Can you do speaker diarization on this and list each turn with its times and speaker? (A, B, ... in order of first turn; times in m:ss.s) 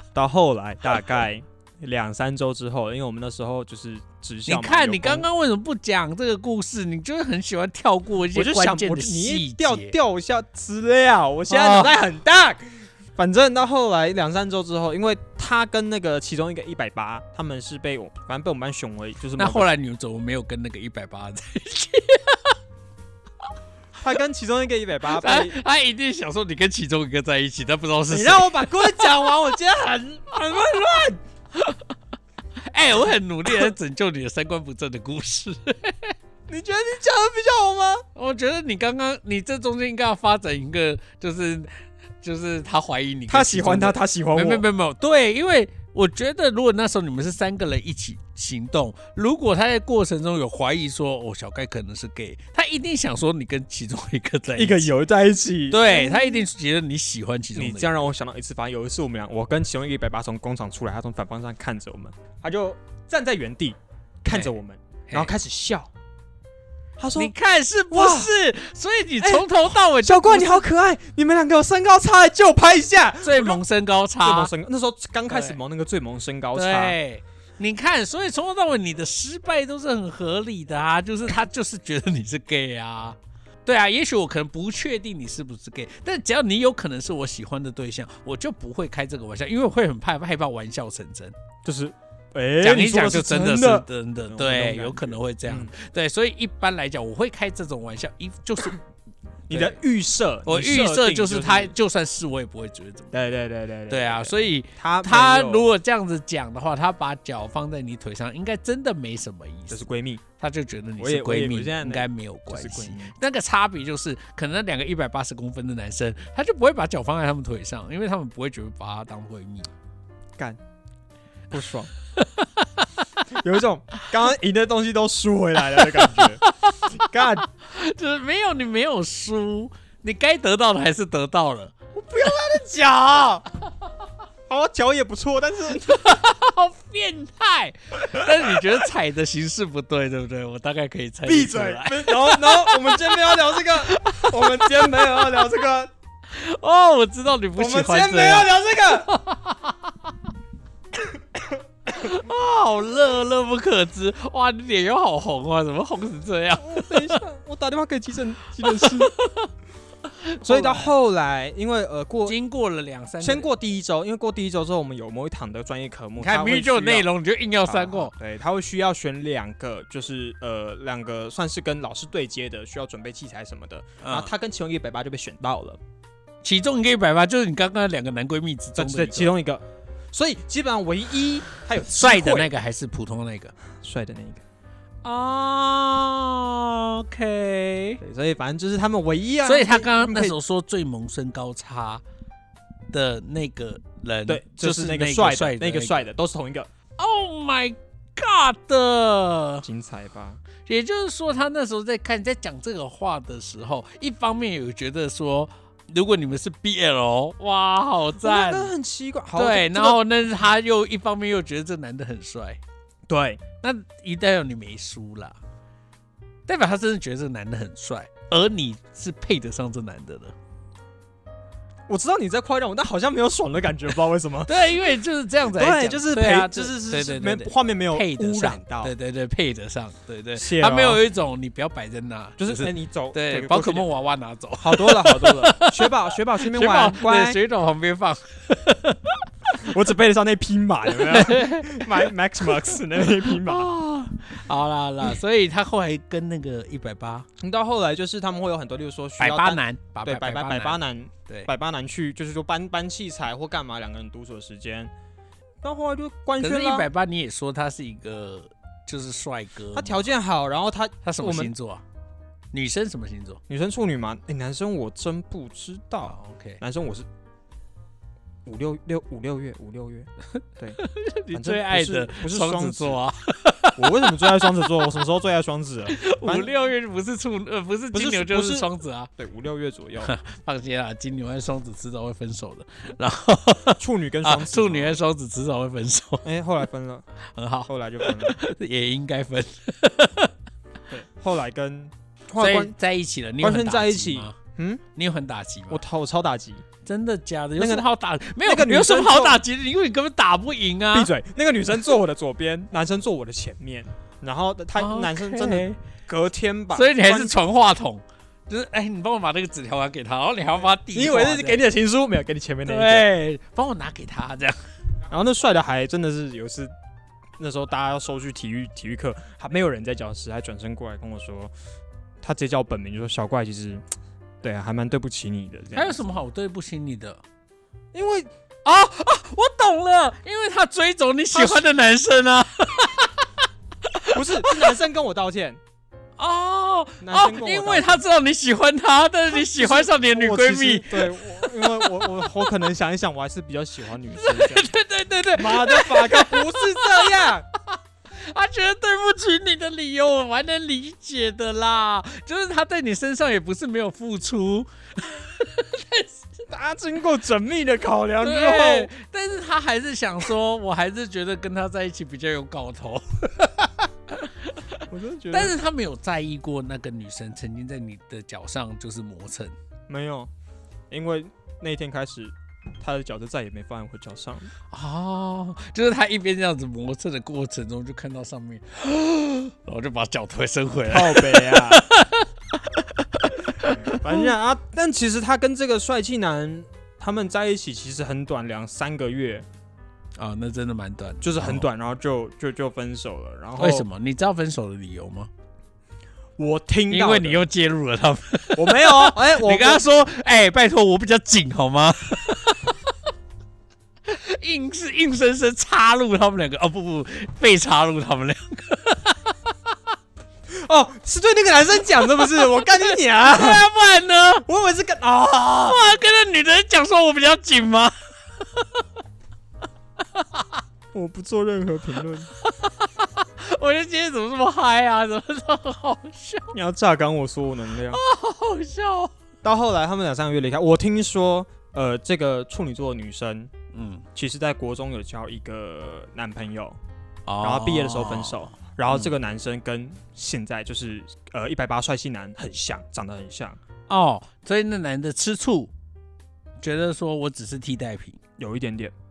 0:00.2-0:05.3 A
0:04.5-0:10.0 B
0:08.3-0:19.7 A
0:11.5-0:11.9 B
0:19.4-0:22.6 B
0:24.0-0:25.6 A
0:25.1-0:29.0 B
0:28.1-0:31.2 A
0:31.6-0:31.8 B
0:32.7-0:36.2 B
0:36.5-0:38.0 A
0:38.2-0:54.9 B
0:43.3-0:44.6 A
0:54.6-0:56.5 A
0:55.7-0:58.0 B
0:57.6-1:05.9 A
1:07.0-1:07.3 A
1:07.2-1:10.7 B
1:07.9-1:08.3 A
1:09.2-1:13.6 A
1:13.2-1:14.5 B
1:14.2-1:17.0 A
1:15.3-1:15.6 B
1:16.5-1:31.4 B
1:31.6-1:35.7 A
1:32.6-1:38.8 B
1:39.5-1:41.7 A
1:39.5-1:39.8 B
1:40.5-1:43.2 B
1:43.1-1:45.7 A
1:43.9-1:49.9 B
1:49.7-1:50.2 A
1:50.4-1:59.7 B
1:51.0-1:53.2 A
2:01.5-2:01.9 A
2:02.2-2:02.9 B
2:03.3-2:07.5 A
2:05.8-2:12.4 B
2:11.9-2:13.4 A
2:14.5-2:16.2 A
2:15.8-2:25.5 B
2:18.2-2:18.6 A
2:21.2-2:25.9 A
2:26.3-2:30.1 B
2:27.6-2:29.1 A
2:31.9-2:37.2 B
2:36.6-2:39.1 A
2:38.6-2:39.5 B
2:40.1-2:40.9 B
2:40.4-2:42.4 A
2:42.3-2:43.5 B
2:43.2-2:47.1 A
2:46.2-2:48.1 B
2:47.6-2:55.8 A
2:54.0-2:54.3 B
2:56.4-2:59.3 B
2:58.8-3:02.5 A
3:01.9-3:03.5 B
3:03.8-3:04.4 A
3:05.0-3:08.0 B
3:08.0-3:10.4 A
3:09.4-3:12.0 B
3:12.9-3:16.1 B
3:14.3-3:16.7 A
3:17.0-3:19.6 B
3:19.6-3:20.4 A
3:20.7-3:28.7 B
3:28.2-3:30.0 A
3:29.4-3:32.6 B
3:33.1-3:33.4 A
3:33.6-3:35.4 B
3:36.5-3:40.4 B
3:41.9-3:44.7 A
3:44.5-3:59.2 B
3:45.5-3:48.9 A
3:50.4-3:51.0 A
3:52.4-3:53.9 A
3:54.6-3:57.4 A
3:59.6-4:03.7 A
4:00.9-4:07.3 B
4:07.4-4:14.9 A
4:09.2-4:11.5 B
4:15.6-4:16.9 A
4:16.4-4:20.0 B
4:19.7-4:21.5 A
4:21.0-4:21.8 B
4:22.5-4:23.4 B
4:23.5-4:27.1 A
4:26.0-4:26.6 B
4:28.4-4:30.8 A
4:30.8-4:34.8 B
4:31.3-4:33.0 A
4:33.8-4:36.5 A
4:35.9-4:39.1 B
4:37.9-4:40.1 A
4:40.0-4:46.3 B
4:43.8-4:45.0 A
4:46.2-4:47.1 A
4:47.3-4:50.3 B
4:47.7-4:48.4 A
4:50.9-4:52.7 A
4:52.4-4:54.4 B
4:53.4-4:54.8 A
4:55.0-4:55.8 B
4:55.7-4:56.6 A
4:56.8-5:01.1 B
4:57.6-4:57.9 A
4:58.4-4:59.4 A
5:00.9-5:07.4 A
5:04.8-5:05.8 B
5:06.7-5:11.6 B
5:10.9-5:13.1 A
5:12.7-5:14.6 B
5:15.1-5:16.7 A
5:17.4-5:21.5 A
5:22.2-5:23.8 A
5:24.4-5:26.0 A
5:25.7-5:27.2 B
5:27.9-5:28.3 A
5:28.6-5:34.8 B
5:31.3-5:31.7 A
5:34.1-5:35.6 A
5:36.2-5:42.4 B
5:37.0-5:38.0 A
5:39.3-5:44.7 A
5:44.1-5:56.3 B
5:45.4-5:47.5 A
5:56.5-5:58.9 A
5:58.2-6:09.6 B
6:04.9-6:05.5 A
6:09.9-6:10.3 A
6:10.9-6:14.5 A
6:14.7-6:24.3 B
6:20.9-6:21.8 A
6:23.6-6:29.5 A
6:30.2-6:31.7 B
6:31.2-6:33.9 A
6:33.6-6:35.3 B
6:36.4-6:37.4 A
6:36.9-6:42.8 B
6:38.6-6:39.8 A
6:44.1-6:49.5 B
6:50.5-6:53.7 A
6:52.2-6:54.5 B
6:54.5-6:55.9 A
6:55.5-6:58.8 B
7:00.1-7:00.6 B
7:00.9-7:02.3 A
7:02.4-7:06.5 B
7:06.5-7:08.0 A
7:07.9-7:09.1 B
7:09.4-7:13.5 A
7:13.7-7:14.0 B
7:14.2-7:16.8 A
7:17.3-7:19.1 B
7:17.4-7:23.6 A
7:23.9-7:25.7 B
7:26.6-7:28.2 B
7:28.4-7:28.9 A